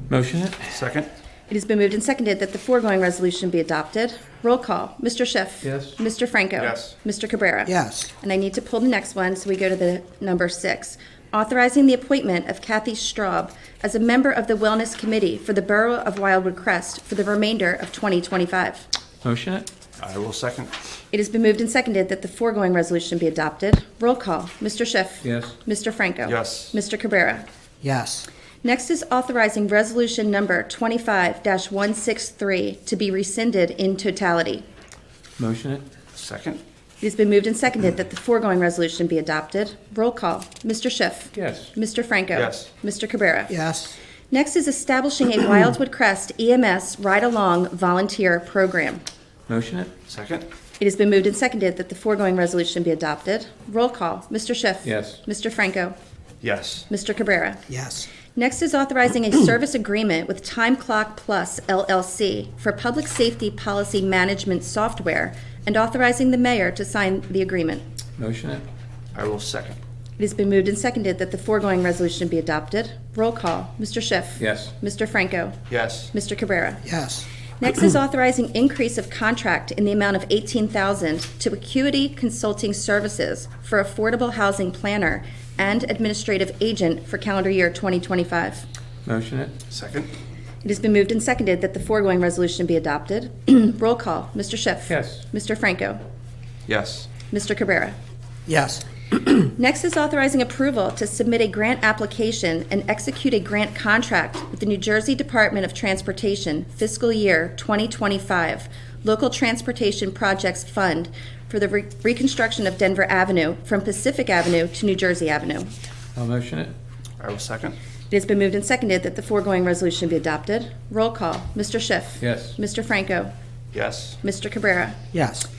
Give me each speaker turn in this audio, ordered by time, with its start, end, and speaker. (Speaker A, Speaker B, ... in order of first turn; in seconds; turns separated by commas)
Speaker A: 0.1-0.7, Speaker B: 0.7-1.1, Speaker C: 1.5-18.9, Speaker A: 5.6-6.0, Speaker B: 6.6-6.9, Speaker D: 7.7-8.1, Speaker A: 19.2-19.7, Speaker B: 20.0-20.7, Speaker C: 21.1-27.4, Speaker A: 25.2-25.6, Speaker B: 26.2-26.8, Speaker D: 27.8-28.3, Speaker C: 28.6-34.6, Speaker A: 35.4-35.8, Speaker B: 36.1-36.6, Speaker C: 37.0-43.5, Speaker A: 41.3-41.7, Speaker B: 42.3-42.7, Speaker D: 43.5-44.0, Speaker C: 44.3-49.0, Speaker A: 49.5-49.9, Speaker B: 50.1-50.5, Speaker C: 50.8-56.0, Speaker A: 54.8-55.2, Speaker B: 56.4-56.9, Speaker C: 56.9-57.6, Speaker D: 57.7-58.1, Speaker C: 58.3-67.8, Speaker A: 68.2-68.6, Speaker B: 69.1-69.8, Speaker C: 70.2-75.6, Speaker A: 74.4-74.7, Speaker B: 75.7-76.1, Speaker C: 76.1-76.8, Speaker D: 76.8-77.3, Speaker C: 77.6-88.6, Speaker A: 89.0-89.5, Speaker B: 89.7-90.1, Speaker C: 90.6-96.0, Speaker A: 94.9-95.2, Speaker B: 96.7-97.1, Speaker C: 97.3-98.0, Speaker D: 98.5-99.5, Speaker C: 99.6-115.7, Speaker A: 116.2-116.7, Speaker B: 117.2-117.8, Speaker C: 118.1-123.3, Speaker A: 122.2-122.6, Speaker B: 123.7-124.2, Speaker C: 124.2-125.0, Speaker D: 125.1-125.5